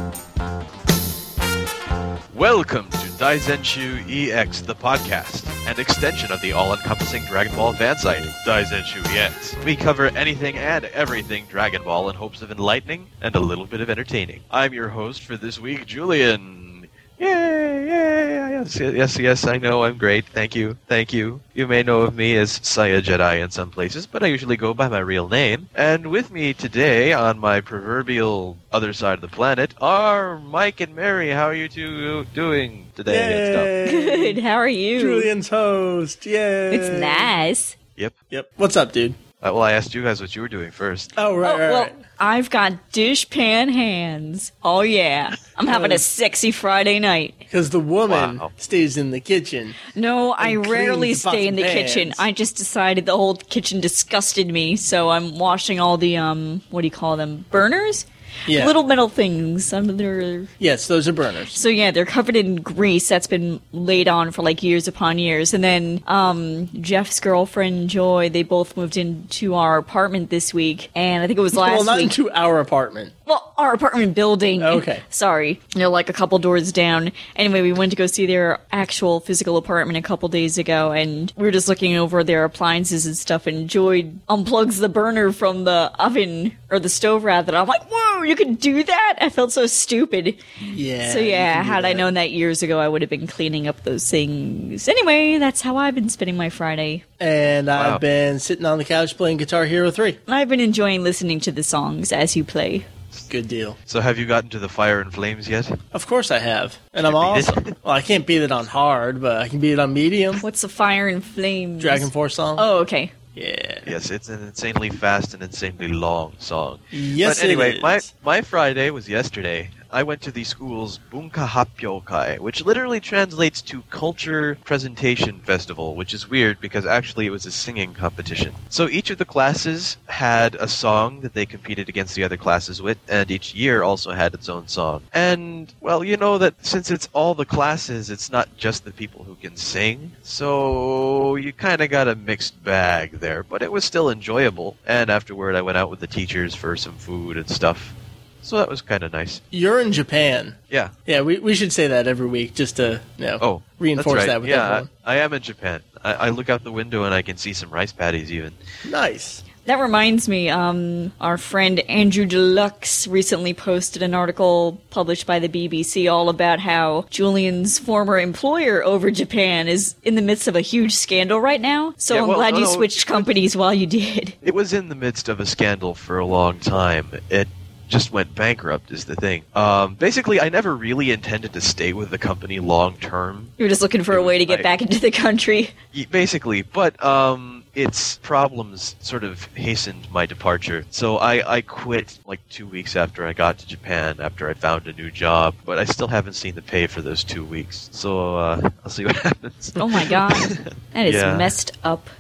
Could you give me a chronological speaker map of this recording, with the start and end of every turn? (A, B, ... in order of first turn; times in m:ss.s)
0:02.3-0:33.7 A
0:33.1-0:34.4 B
0:33.8-0:35.3 C
0:35.0-0:37.3 B
0:36.7-0:37.8 C
0:38.3-0:39.2 B
0:39.4-0:41.2 A
0:41.2-0:41.9 B
0:41.4-0:47.4 C
0:45.7-0:46.0 B
0:47.5-0:49.8 B
0:48.1-0:48.5 A
0:49.9-1:00.5 C
0:50.4-0:52.2 B
0:58.5-0:58.7 B
1:00.6-1:01.6 B
1:01.5-1:12.1 C
1:11.5-1:13.1 B
1:13.3-1:30.4 C
1:14.6-1:15.0 B
1:30.7-1:32.1 B
1:31.0-1:37.0 C
1:37.2-1:40.2 B
1:37.8-1:38.0 A
1:40.3-1:42.9 C
1:43.3-1:43.8 B
1:43.9-1:45.8 A
1:45.9-1:50.4 B
1:47.0-1:47.8 A
1:50.4-1:53.1 C
1:51.8-1:52.7 B
1:53.4-1:53.9 B
1:53.9-2:29.4 A
1:56.9-1:58.0 B
2:29.5-2:30.6 B
2:31.1-2:34.9 B
2:33.4-2:38.6 A
2:38.8-2:39.4 B
2:39.6-2:54.4 C
2:52.1-2:53.4 A
2:54.4-3:03.5 A
3:03.6-3:05.7 C
3:04.1-3:04.7 A
3:05.9-3:21.5 A
3:19.8-3:22.1 C